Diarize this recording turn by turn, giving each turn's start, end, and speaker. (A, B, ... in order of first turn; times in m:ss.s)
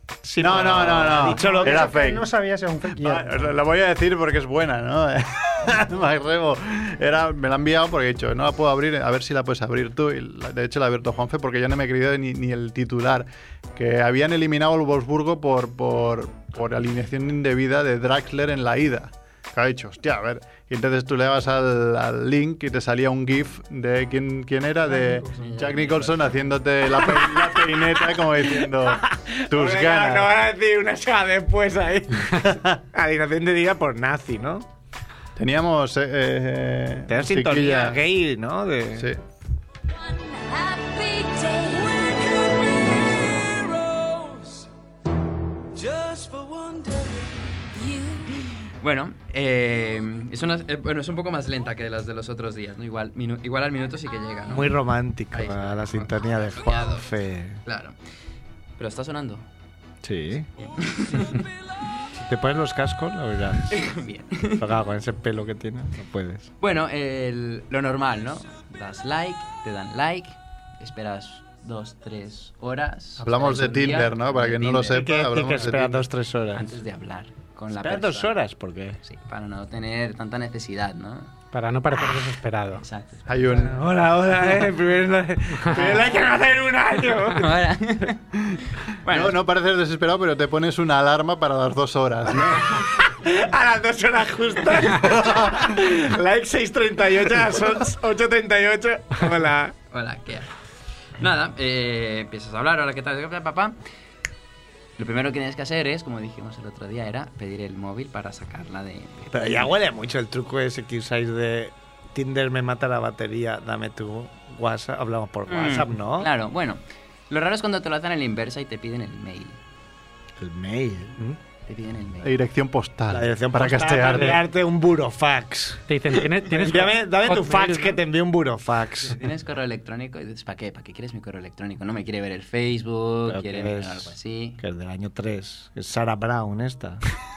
0:00.2-0:02.0 A
0:00.4-0:02.3 B
0:01.2-0:03.3 C
0:03.0-0:30.3 B
0:25.3-0:26.5 D
0:27.0-0:34.7 A
0:35.4-0:38.0 B
0:37.1-0:39.1 A
0:40.0-0:43.6 E
0:45.9-0:47.0 E
0:47.7-0:48.4 E
0:48.8-0:54.8 D
0:54.5-0:57.6 A
0:55.3-0:57.1 D
0:57.7-0:58.0 D
0:58.8-0:59.4 D
1:00.0-1:00.5 A
1:00.6-1:01.4 D
1:02.2-1:03.8 A
1:03.7-1:04.7 D
1:04.6-1:06.5 A
1:06.6-1:15.0 D
1:13.2-1:16.0 B
1:14.9-1:16.7 A
1:16.6-1:18.4 D
1:17.7-1:19.0 A
1:19.0-1:21.3 D
1:21.5-1:22.8 F
1:22.8-1:23.3 D
1:23.3-1:23.8 B
1:23.6-1:27.6 A
1:27.3-1:28.2 D
1:29.0-1:29.4 D
1:29.1-1:32.8 B
1:33.1-1:39.8 A
1:34.9-1:35.6 B
1:39.9-1:40.5 D
1:41.2-1:43.8 D
1:45.0-1:49.7 D
1:49.3-1:56.3 A
1:55.5-1:59.6 D
2:00.4-2:01.4 A
2:01.7-2:02.3 D
2:02.2-2:04.4 B
2:03.1-2:05.8 A
2:05.9-2:08.0 F
2:06.6-2:09.2 A
2:09.1-2:14.6 D
2:13.3-2:17.0 A